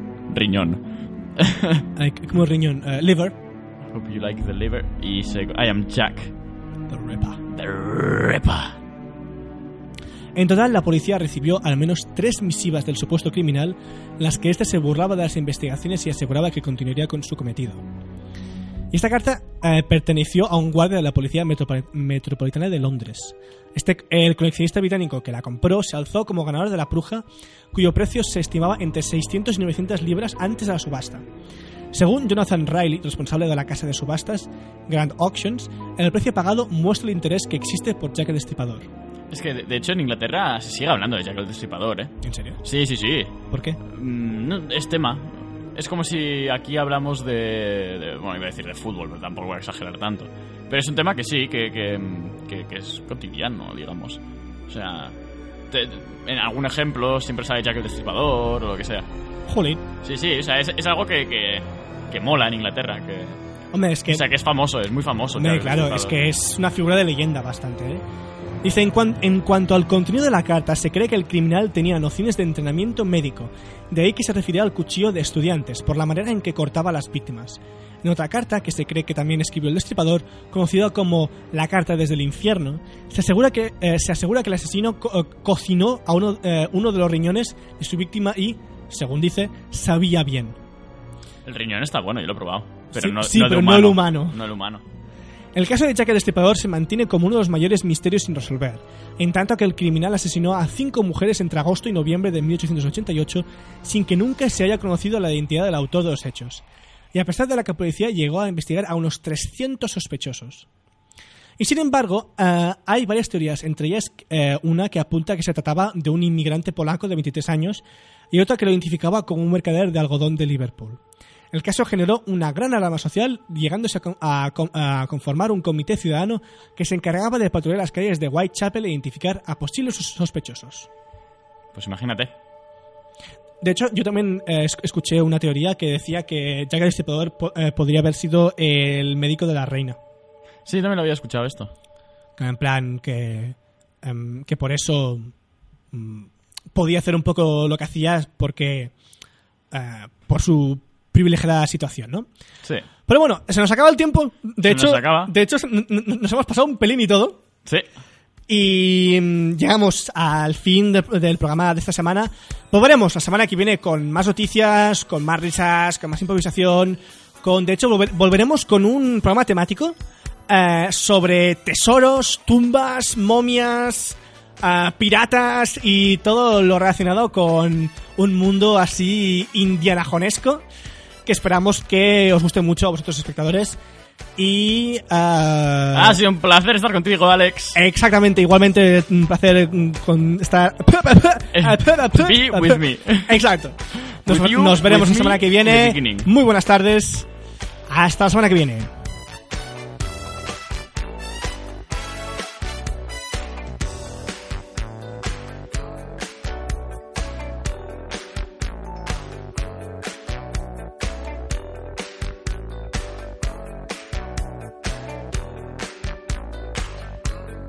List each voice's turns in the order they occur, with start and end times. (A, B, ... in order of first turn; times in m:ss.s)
0:00.3-0:00.8 A
0:01.4-0:01.9 A
0:02.0-0:03.4 B
0:03.9-0:06.4 A
0:06.9-0:07.4 B
0:07.5-0:08.8 A
0:10.4-0:17.8 B
0:18.9-0:31.2 B
0:31.9-0:38.9 B
0:39.3-0:55.2 A
0:42.2-0:42.6 B
0:43.5-0:43.8 B
0:55.7-0:59.1 A
0:59.5-0:59.8 B
1:00.0-1:03.4 A
1:03.7-1:04.3 B
1:04.1-1:06.2 A
1:05.4-1:08.0 B
1:08.6-1:30.6 B
1:31.4-1:34.8 A
1:32.9-1:34.4 B
1:35.6-1:50.7 B
1:51.6-2:01.0 B
2:01.5-2:10.9 B
2:11.7-2:12.3 A
2:13.6-2:20.0 B
2:20.6-2:21.7 A
2:22.4-2:25.3 B
2:25.9-2:28.9 B
2:29.7-2:32.3 B
2:33.1-2:37.4 B
2:34.6-2:35.3 A
2:38.5-2:50.0 B
2:50.5-3:00.6 B
3:01.3-3:03.8 B
3:04.4-3:06.2 B
3:05.9-3:07.8 A
3:07.7-3:17.3 B
3:11.5-3:16.3 A
3:17.9-3:18.9 B